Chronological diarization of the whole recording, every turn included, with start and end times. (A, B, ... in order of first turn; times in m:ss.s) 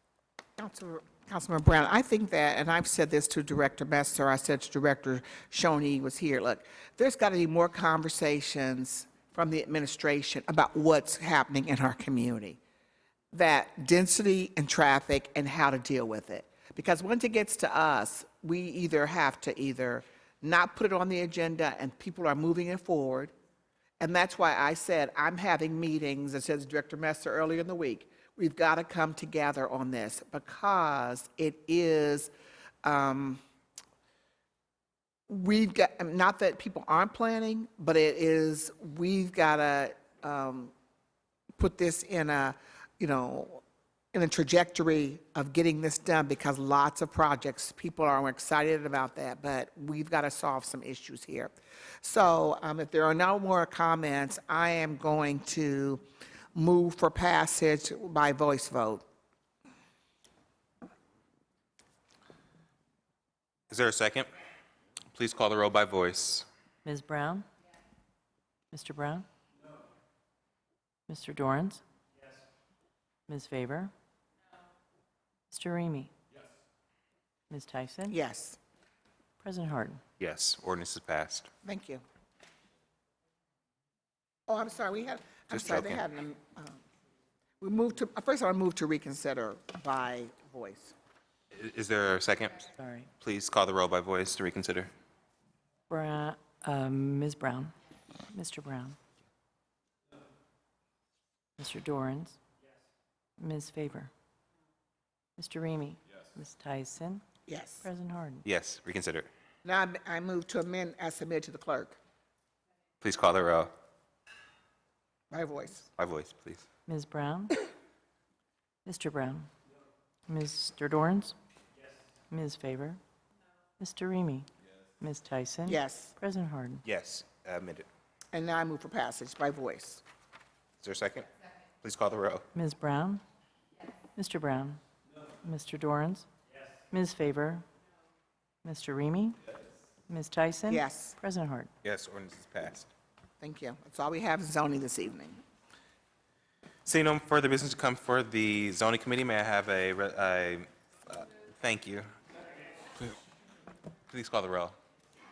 0:00.6-0:12.6 A
0:13.3-0:23.3 A
0:24.0-0:32.3 A
0:32.8-0:33.4 A
0:35.3-0:40.7 A
0:41.6-0:43.6 A
0:44.1-0:56.0 A
0:56.5-0:59.0 A
1:03.7-1:04.3 B
1:05.1-1:06.4 B
1:06.8-1:07.4 C
1:08.7-1:09.2 C
1:11.1-1:11.8 C
1:13.3-1:13.9 C
1:15.5-1:16.1 C
1:17.5-1:18.1 C
1:18.1-1:18.6 A
1:19.4-1:20.0 C
1:20.2-1:21.5 B
1:21.6-1:22.0 A
1:24.5-1:26.8 A
1:25.5-1:26.0 B
1:27.6-1:30.9 A
1:31.5-1:32.6 B
1:32.8-1:33.1 C
1:33.2-1:34.9 B
1:35.9-1:37.7 C
1:38.3-1:39.0 C
1:41.6-1:42.4 C
1:43.4-1:44.1 C
1:45.4-1:47.2 C
1:47.5-1:47.8 A
1:47.8-1:48.4 C
1:48.4-1:49.3 B
1:49.6-1:52.0 A
1:53.0-1:53.7 B
1:55.3-1:55.9 A
1:56.0-1:56.6 B
1:56.9-1:57.7 C
1:58.8-1:59.5 C
2:00.3-2:01.3 C
2:02.3-2:03.0 C
2:03.8-2:04.5 C
2:05.0-2:06.8 C
2:05.7-2:06.1 A
2:06.8-2:07.9 B
2:08.3-2:10.0 A
2:10.8-2:11.3 B
2:11.8-2:12.4 B
2:12.5-2:13.2 C
2:14.1-2:14.8 C
2:15.4-2:16.2 C
2:16.9-2:17.6 C
2:18.6-2:19.4 C
2:20.1-2:21.7 C
2:20.7-2:21.2 A
2:21.8-2:22.9 B
2:23.4-2:25.4 A
2:26.8-2:32.0 B
2:34.1-2:34.8 B